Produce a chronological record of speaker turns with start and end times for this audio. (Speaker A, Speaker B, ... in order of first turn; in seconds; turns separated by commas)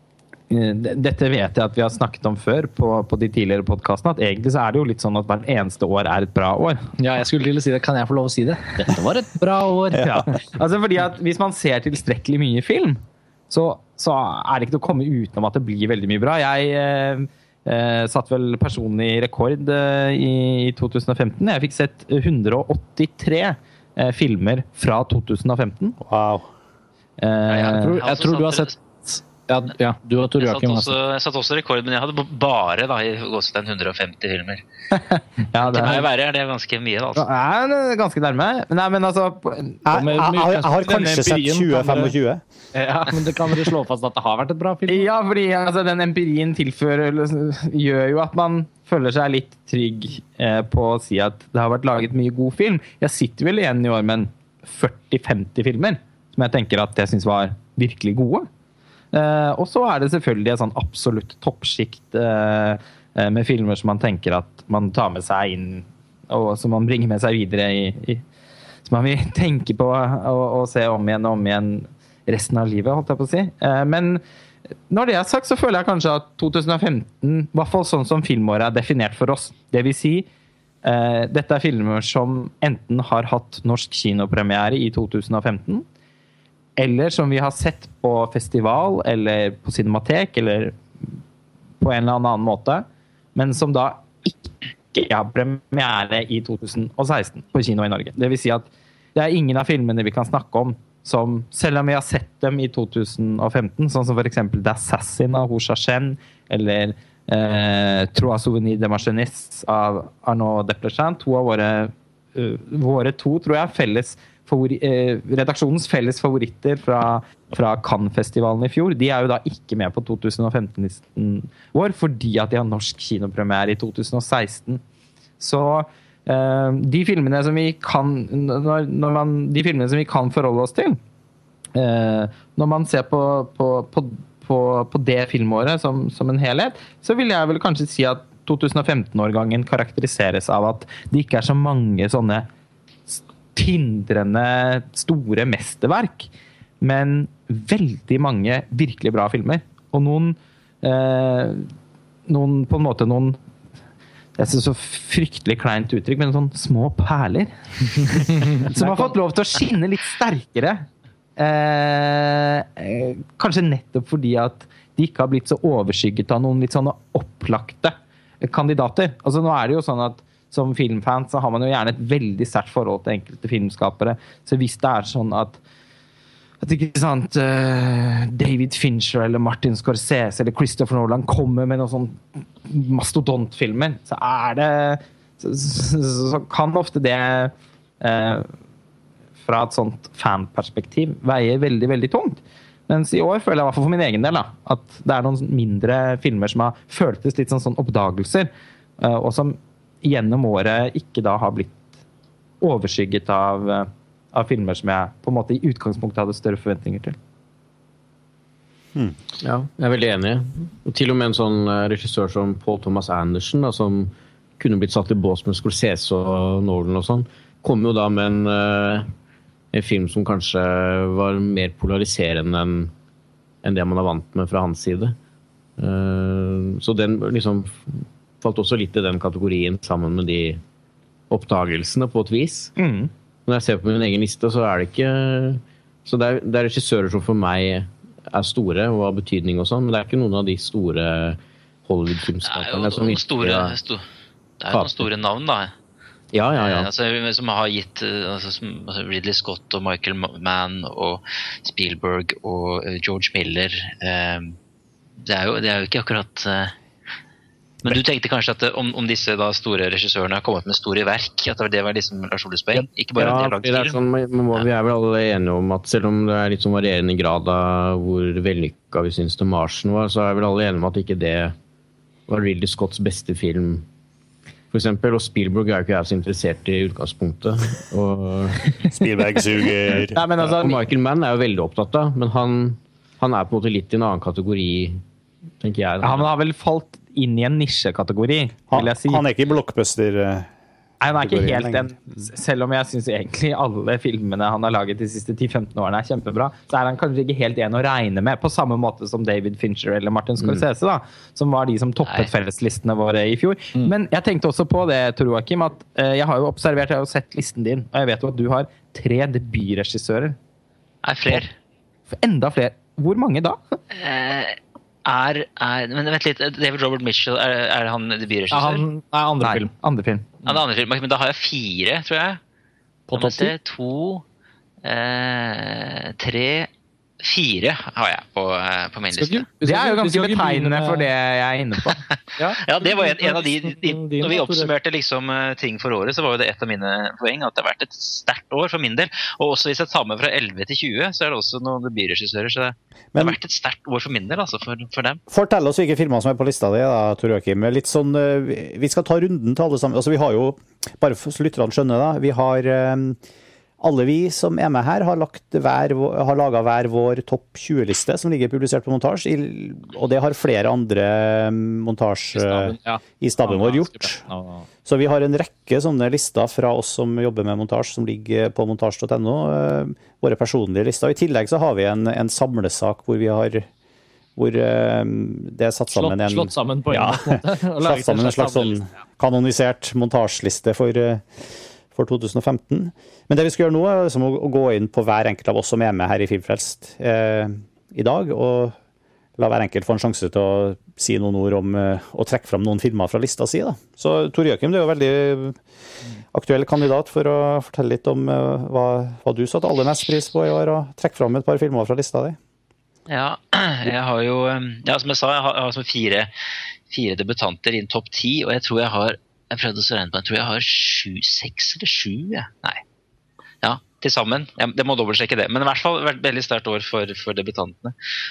Speaker A: 0.5-6.8, Speaker B: 7.0-10.4, Speaker A: 10.0-26.0, Speaker C: 26.0-26.4, Speaker A: 27.2-28.0, Speaker D: 27.5-28.7, Speaker B: 27.6-30.9, Speaker D: 30.4-34.6, Speaker A: 34.9-36.0, Speaker D: 35.6-37.3, Speaker A: 37.1-39.9, Speaker C: 39.8-42.4, Speaker B: 39.9-42.1, Speaker B: 42.7-45.1, Speaker A: 44.9-58.5, Speaker A: 59.1-68.2, Speaker A: 68.8-74.2, Speaker A: 74.9-80.3, Speaker A: 80.8-85.8, Speaker A: 86.8-91.2, Speaker A: 91.8-124.8, Speaker A: 125.4-131.0, Speaker A: 131.7-142.5, Speaker A: 143.1-146.3, Speaker A: 146.8-151.7, Speaker A: 152.3-153.4, Speaker A: 154.4-175.6, Speaker A: 176.6-188.5, Speaker A: 189.4-201.8, Speaker A: 202.6-207.2, Speaker E: 209.4-219.1, Speaker E: 219.7-222.9, Speaker E: 223.6-225.2, Speaker E: 225.8-230.6, Speaker E: 231.3-232.7, Speaker A: 232.8-233.1, Speaker E: 233.4-243.8, Speaker D: 242.4-244.0, Speaker D: 244.6-245.7, Speaker E: 244.7-245.1, Speaker E: 246.3-246.9, Speaker D: 246.6-254.6, Speaker D: 255.2-256.7, Speaker D: 257.8-264.0, Speaker E: 262.7-271.6, Speaker E: 272.3-273.9, Speaker E: 274.7-278.7, Speaker C: 278.8-280.2, Speaker A: 279.9-280.8, Speaker E: 280.4-285.0, Speaker E: 285.6-286.3, Speaker A: 286.0-289.2, Speaker C: 288.7-290.5, Speaker A: 291.0-310.4, Speaker C: 291.2-292.0, Speaker D: 311.0-311.5, Speaker A: 312.1-313.8, Speaker D: 313.9-318.8, Speaker B: 318.5-319.7, Speaker A: 319.4-320.2, Speaker D: 320.4-322.4, Speaker B: 323.1-323.5, Speaker D: 323.1-324.2, Speaker D: 324.8-326.7, Speaker D: 327.2-329.4, Speaker B: 329.1-331.1, Speaker A: 329.6-332.0, Speaker B: 332.4-334.7, Speaker D: 332.6-345.2, Speaker C: 345.3-353.2, Speaker C: 353.8-364.2, Speaker B: 362.3-364.7, Speaker C: 364.8-373.7, Speaker C: 374.4-388.8, Speaker B: 375.9-378.8, Speaker C: 389.4-395.6, Speaker C: 396.3-402.4, Speaker D: 403.1-406.3, Speaker D: 406.9-412.8, Speaker D: 413.6-417.9